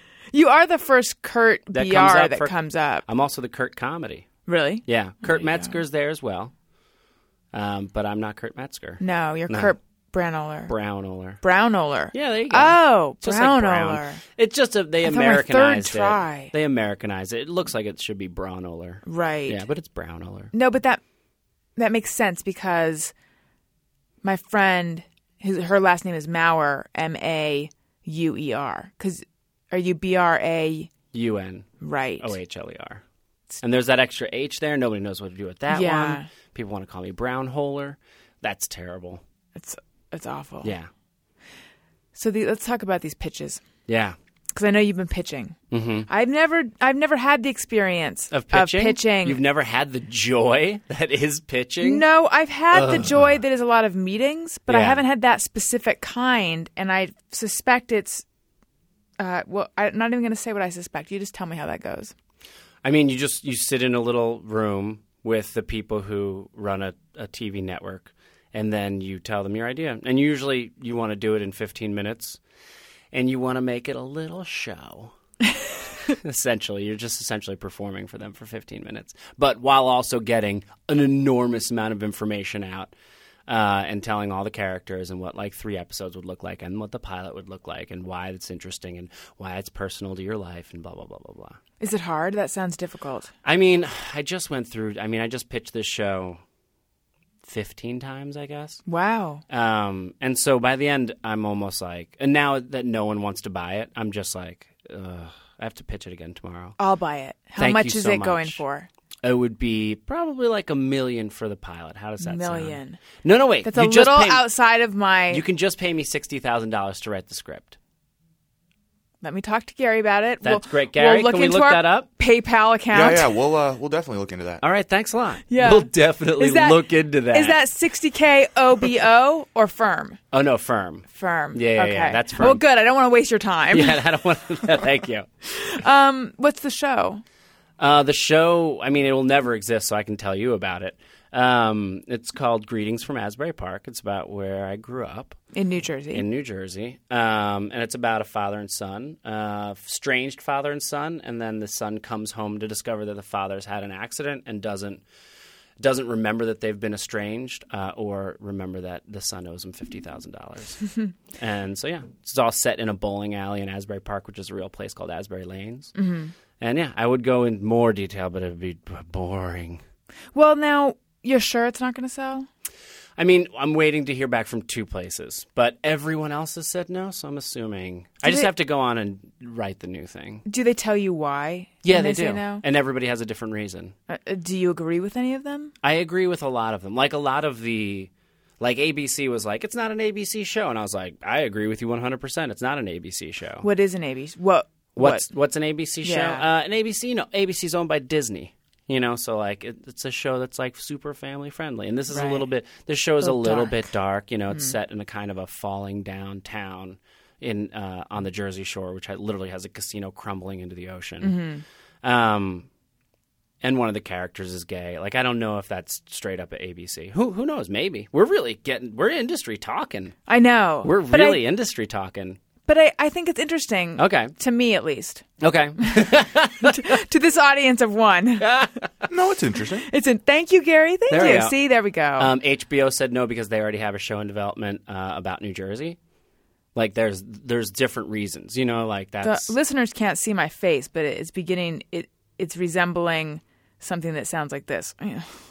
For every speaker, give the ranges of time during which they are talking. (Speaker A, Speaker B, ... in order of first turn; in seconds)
Speaker A: 0.3-3.0, 4.5-5.8, 9.0-10.7, 11.4-14.2, 15.0-16.5, 19.1-19.6, 20.5-21.0, 21.8-23.1, 24.2-30.9, 31.8-32.3, 35.7-36.3, 39.5-40.7, 42.1-43.6, 44.5-45.5, 46.1-49.4, 51.8-58.2, 59.2-62.1, 91.8-93.3, 98.9-99.4, 106.8-108.9, 112.2-113.0, 113.6-115.4, 119.2-123.3, 125.5-130.2, 131.1-134.0, 135.4-137.2, 145.5-146.2, 165.9-166.3, 170.3-172.5, 178.2-178.5, 180.4-182.6, 184.1-185.7, 193.6-195.2, 196.0-196.4, 202.1-202.4, 203.2-203.8, 211.2-211.6, 220.3-221.4, 222.7-225.2, 225.8-228.6, 229.9-232.3, 239.2-245.4
Speaker B: 1.7-2.5, 3.0-4.3, 4.8-6.5, 7.5-9.7, 10.7-11.4, 12.1-20.5, 31.1-33.0, 33.6-39.2, 40.6-40.9, 43.9-44.1, 45.7-46.1, 48.3-52.0, 52.7-53.3, 54.7-55.0, 62.8-72.4, 73.1-75.1, 76.1-82.9, 83.5-91.6, 93.4-96.4, 97.4-98.8, 99.5-106.8, 107.6-108.6, 109.2-114.5, 115.3-117.8, 120.4-122.1, 124.6-127.6, 130.3-132.6, 133.7-135.3, 137.8-145.4, 146.1-155.0, 155.8-165.9, 166.6-169.8, 173.2-180.4, 181.8-183.9, 185.8-193.7, 194.9-211.4, 212.0-212.7, 213.6-220.2, 220.8-222.4, 224.0-224.3, 225.4-226.9, 228.4-228.9, 231.1-231.5, 232.2-236.0, 236.7-239.5
Speaker C: 122.9-124.6, 229.1-229.9